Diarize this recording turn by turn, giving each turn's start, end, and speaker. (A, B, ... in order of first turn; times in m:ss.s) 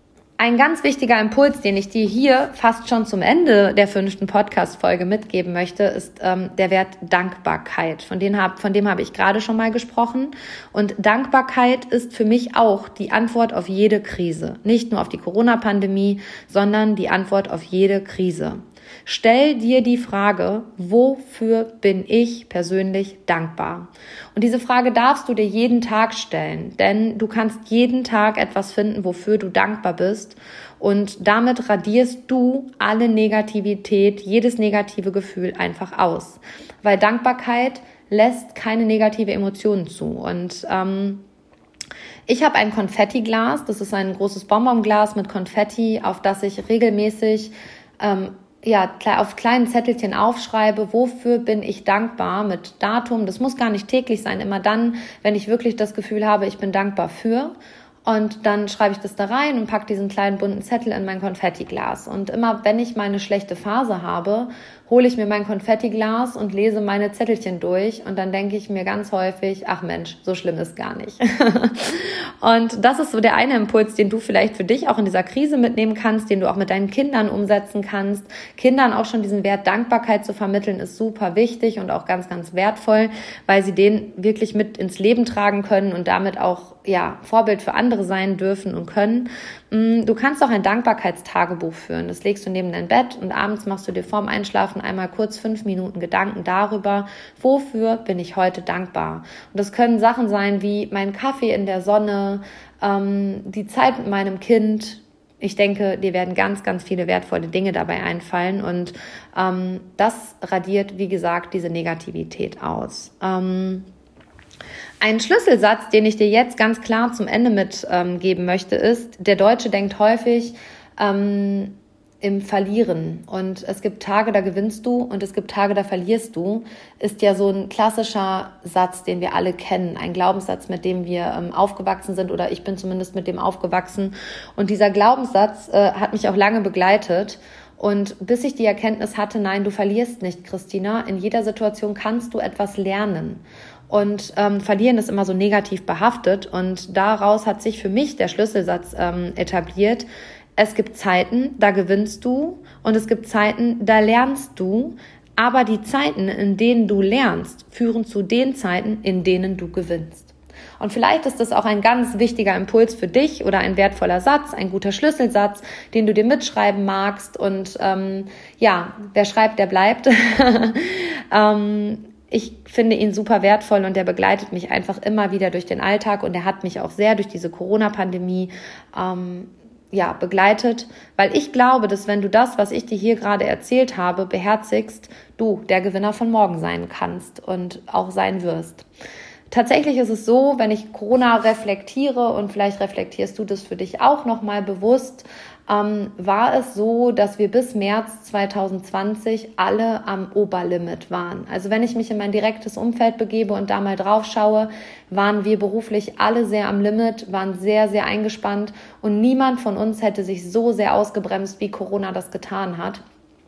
0:00.4-0:41.2 A
0:42.3-0:57.5 A
0:58.0-1:53.9 A
1:55.0-3:08.8 A
3:09.5-3:33.0 A